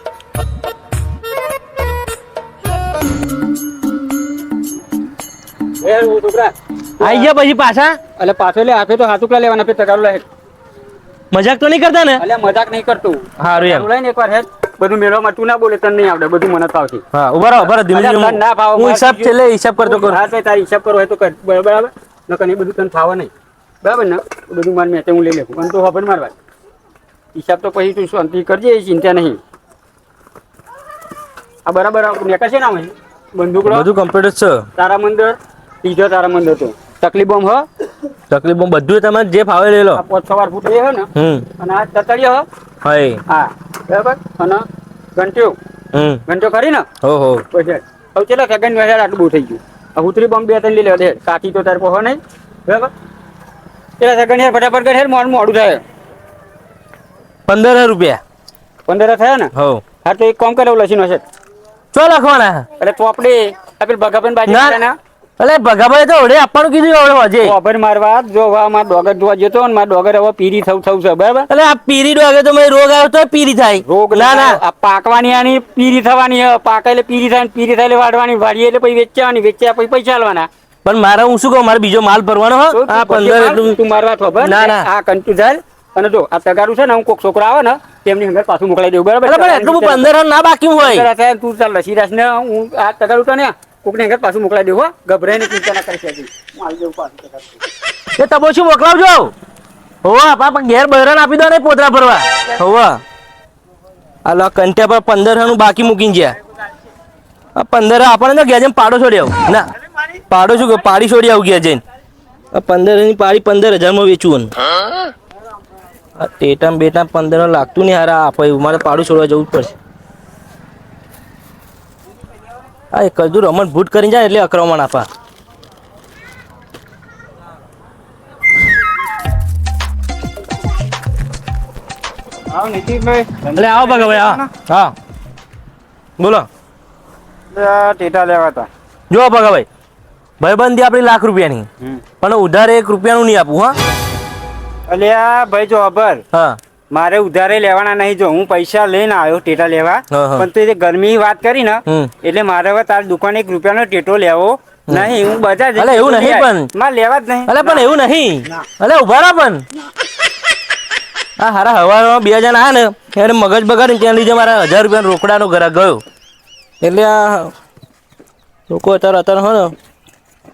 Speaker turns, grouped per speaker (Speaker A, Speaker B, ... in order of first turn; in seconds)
Speaker A: 5.8-7.3, 8.2-10.2, 12.2-17.0, 17.8-23.3, 23.8-26.3, 27.3-29.4, 31.6-33.9, 34.8-37.6, 39.9-42.5, 43.3-44.6, 45.2-45.6, 46.3-46.9, 47.5-52.9, 54.0-55.8, 58.9-59.5, 60.0-61.2, 62.8-65.0, 67.4-71.5, 73.8-80.5, 82.7-90.1, 90.8-97.6, 132.5-134.5, 137.5-138.7, 144.9-146.2, 146.9-157.9
Speaker B: 7.0-8.0, 11.3-12.2, 13.4-13.9, 17.1-20.2, 33.6-34.7, 38.3-40.0, 41.2-41.5, 42.8-43.2, 45.9-46.2, 47.0-47.4, 57.5-58.2, 59.5-59.8, 61.9-62.6, 64.5-64.8, 65.4-67.5, 71.5-74.6, 80.8-83.8, 84.4-84.9, 89.2-91.1, 98.2-99.3, 100.0-103.0, 104.2-106.4, 107.5-109.7, 110.3-111.8, 112.5-114.5, 116.2-119.7, 122.9-125.1, 133.5-134.9, 136.2-136.5, 139.1-139.7, 140.4-141.7, 142.2-143.8, 150.1-150.5, 155.8-156.7, 157.5-159.6, 161.4-166.0, 166.8-167.5, 168.7-169.7